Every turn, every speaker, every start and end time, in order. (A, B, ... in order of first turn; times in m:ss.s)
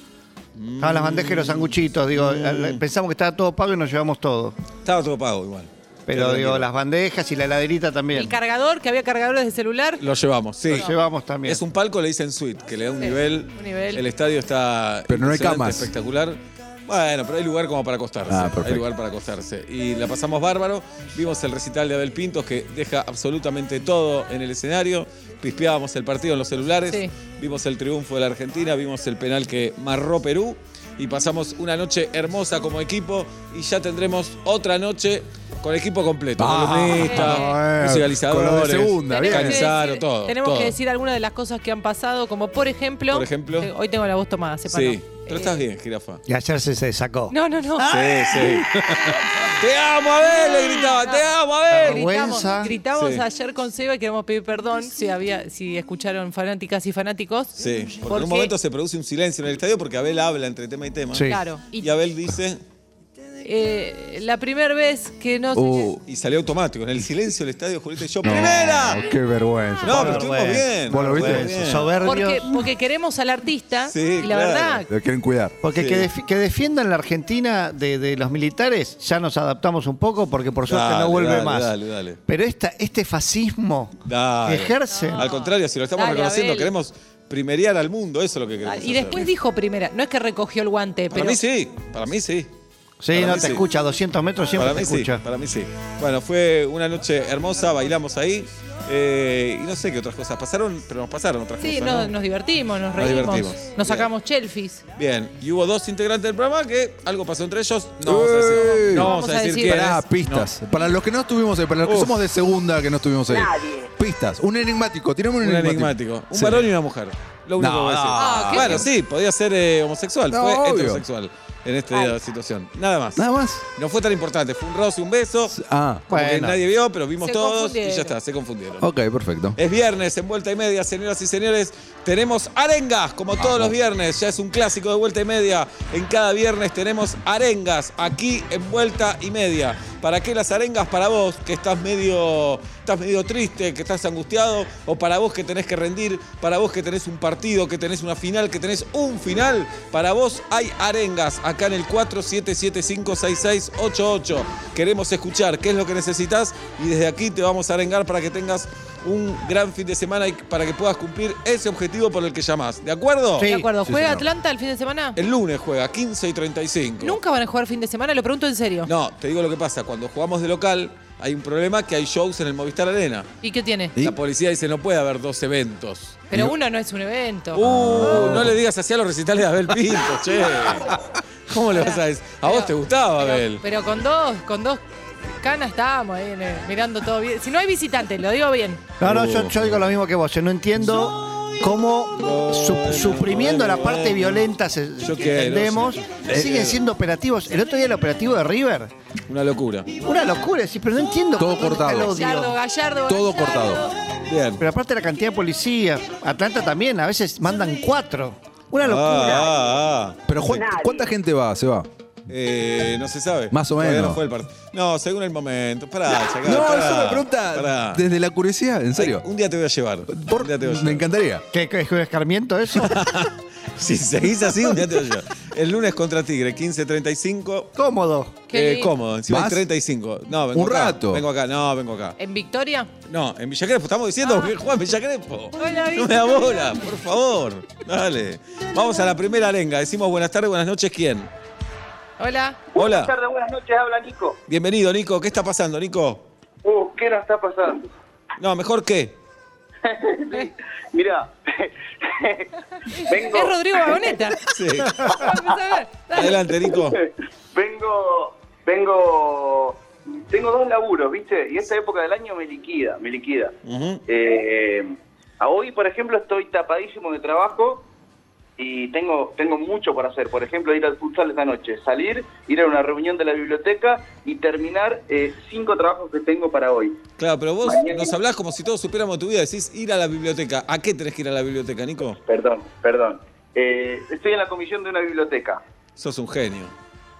0:00.6-0:02.8 A
0:00.8-0:04.6 B
0:04.8-0:06.7 A
0:06.1-0:08.4 B
0:08.1-0:10.0 C
0:10.0-0:10.9 A
0:10.7-0:11.6 B
0:11.5-0:40.8 A
0:13.0-0:14.0 C
0:15.1-0:15.9 D
0:18.3-0:18.8 D
0:36.4-0:39.7 D
0:37.0-0:37.6 C
0:39.1-0:45.6 C
0:43.1-0:43.7 A
0:44.7-0:46.2 A
0:46.3-0:48.6 B
0:47.3-0:47.9 C
0:47.9-0:48.7 A
0:48.4-0:49.2 D
0:49.4-0:52.1 A
0:50.4-0:51.2 C
0:51.7-0:52.8 B
0:51.8-0:58.5 C
0:53.0-0:53.2 A
0:57.6-1:02.6 A
1:01.1-1:01.4 B
1:01.3-1:01.9 C
1:03.4-1:05.9 C
1:05.6-1:06.0 D
1:06.1-1:09.0 A
1:08.2-1:11.8 D
1:09.8-1:11.9 A
1:09.8-1:12.6 B
1:12.0-1:14.9 C
1:13.9-1:14.8 A
1:14.9-1:15.6 D
1:15.6-1:21.7 B
1:15.8-1:16.1 A
1:20.7-1:22.2 A
1:22.3-1:25.2 B
1:24.1-1:29.3 A
1:24.9-1:26.7 C
1:28.6-1:31.4 C
1:31.1-1:32.5 A
1:33.0-1:35.2 B
1:33.1-1:33.6 A
1:34.5-1:42.2 A
1:41.6-1:44.8 C
1:43.0-1:44.1 A
1:45.0-1:50.5 A
1:48.0-1:49.1 D
1:49.0-1:49.8 C
1:49.6-1:56.7 D
1:51.8-1:52.2 A
1:55.4-2:03.2 A
1:57.6-1:58.9 D
1:58.2-1:58.8 C
2:00.3-2:01.0 D
2:03.2-2:03.6 D
2:03.8-2:05.6 A
2:05.5-2:06.0 D
2:06.1-2:08.9 A
2:06.1-2:06.6 B
2:07.2-2:08.1 C
2:08.8-2:09.6 D
2:09.6-2:43.5 A
2:13.4-2:13.8 D
2:43.4-2:43.7 B
2:43.4-2:45.2 C
2:43.8-2:44.3 D
2:45.2-2:47.2 A
2:47.0-2:48.9 C
2:48.8-2:53.3 A
2:53.4-2:54.0 C
2:54.0-2:56.3 A
2:56.3-2:57.7 C
2:57.6-3:01.0 A
2:57.6-2:58.5 D
3:01.5-3:03.6 A
3:01.7-3:04.8 C
3:05.4-3:08.8 C
3:09.0-3:18.9 B
3:09.0-3:09.8 A
3:12.2-3:16.8 A
3:16.3-3:16.6 D
3:19.3-3:19.9 A
3:20.0-3:22.6 B
3:21.4-3:22.2 D
3:21.8-3:23.9 C
3:23.1-3:23.8 D
3:24.3-3:24.6 A
3:24.6-3:29.6 B
3:28.8-3:30.7 A
3:30.3-3:31.9 D
3:32.3-3:38.0 A
3:33.5-3:34.2 D
3:36.4-3:39.2 D
3:39.0-3:41.1 A
3:40.1-3:41.4 D
3:41.5-3:43.1 B
3:42.8-3:47.7 A
3:47.8-3:48.4 B
3:48.5-3:48.9 C
3:48.5-3:52.2 A
3:49.3-3:49.7 D
3:50.5-3:51.2 D
3:52.2-3:52.9 C
3:53.1-4:01.3 A
3:54.2-3:54.5 C
3:55.6-3:56.8 C
4:02.2-4:02.6 C
4:02.7-4:04.4 E
4:02.8-4:03.1 A
4:04.5-4:06.2 A
4:06.6-4:07.9 E
4:08.4-4:09.2 A
4:09.8-4:14.2 E
4:12.9-4:14.4 C
4:14.5-4:15.0 A
4:15.0-4:15.3 E
4:15.0-4:16.4 C
4:16.1-4:17.0 A
4:16.7-4:23.6 E
4:23.6-4:24.0 A
4:24.1-4:27.9 E
4:28.6-4:37.0 E
4:37.2-4:42.2 A
4:37.6-4:38.1 E
4:42.2-4:45.6 E
4:46.0-4:46.7 A